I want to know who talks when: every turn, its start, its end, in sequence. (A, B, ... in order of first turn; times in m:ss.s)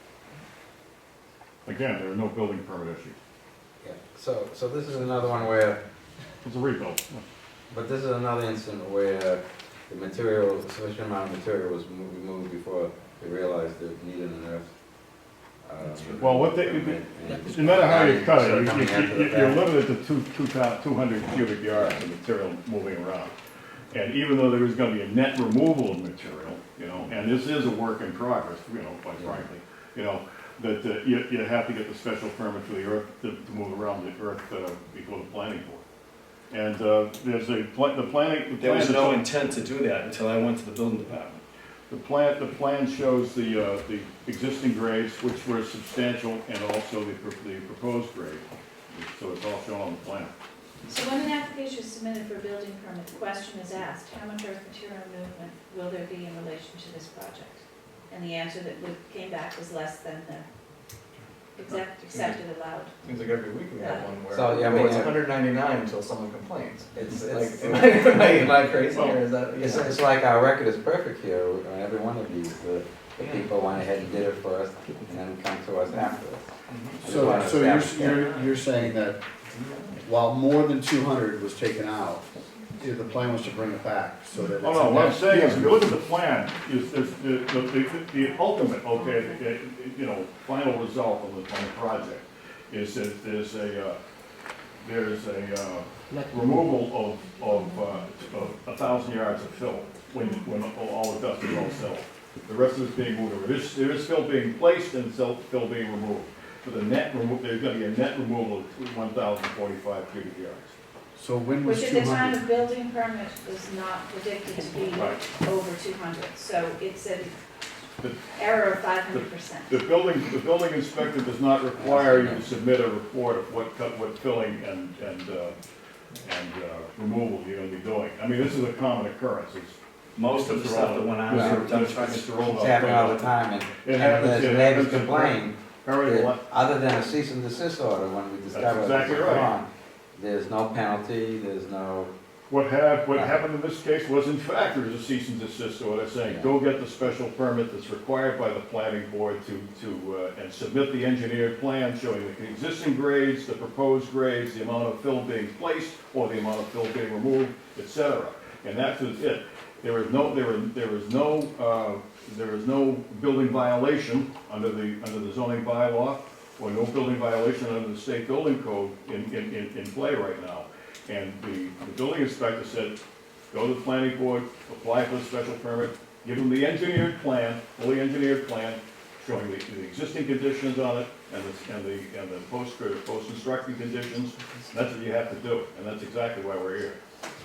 0:01.6-0:03.1 A
0:03.8-0:05.8 B
0:06.4-0:07.2 A
0:07.7-0:14.7 B
0:15.6-0:19.6 B
0:16.2-0:23.3 A
0:21.7-0:22.0 B
0:23.9-0:35.8 A
0:36.5-0:39.3 A
0:38.6-0:41.4 C
0:41.9-0:50.3 A
0:50.9-1:00.4 D
1:01.5-1:03.0 D
1:01.6-1:02.4 E
1:03.0-1:10.0 E
1:03.8-1:04.2 D
1:04.3-1:05.2 B
1:06.9-1:16.5 B
1:08.9-1:09.2 A
1:13.2-1:13.5 E
1:16.7-1:17.0 E
1:17.0-1:18.9 B
1:17.0-1:19.3 F
1:19.9-1:22.2 F
1:22.8-1:25.9 F
1:24.6-1:34.0 A
1:28.9-1:29.4 D
1:34.8-1:50.7 A
1:51.1-1:52.5 F
1:51.6-1:57.4 D
1:54.9-1:55.2 A
1:58.3-1:59.8 D
1:59.1-2:05.6 A
2:01.8-2:02.5 B
2:06.2-2:09.8 A
2:10.2-2:13.0 C
2:10.4-2:16.4 A
2:11.3-2:11.6 B
2:12.5-2:22.1 B
2:18.5-2:19.5 A
2:22.5-2:53.0 A
2:23.1-2:23.4 B
2:26.2-2:26.5 B
2:53.5-3:07.0 A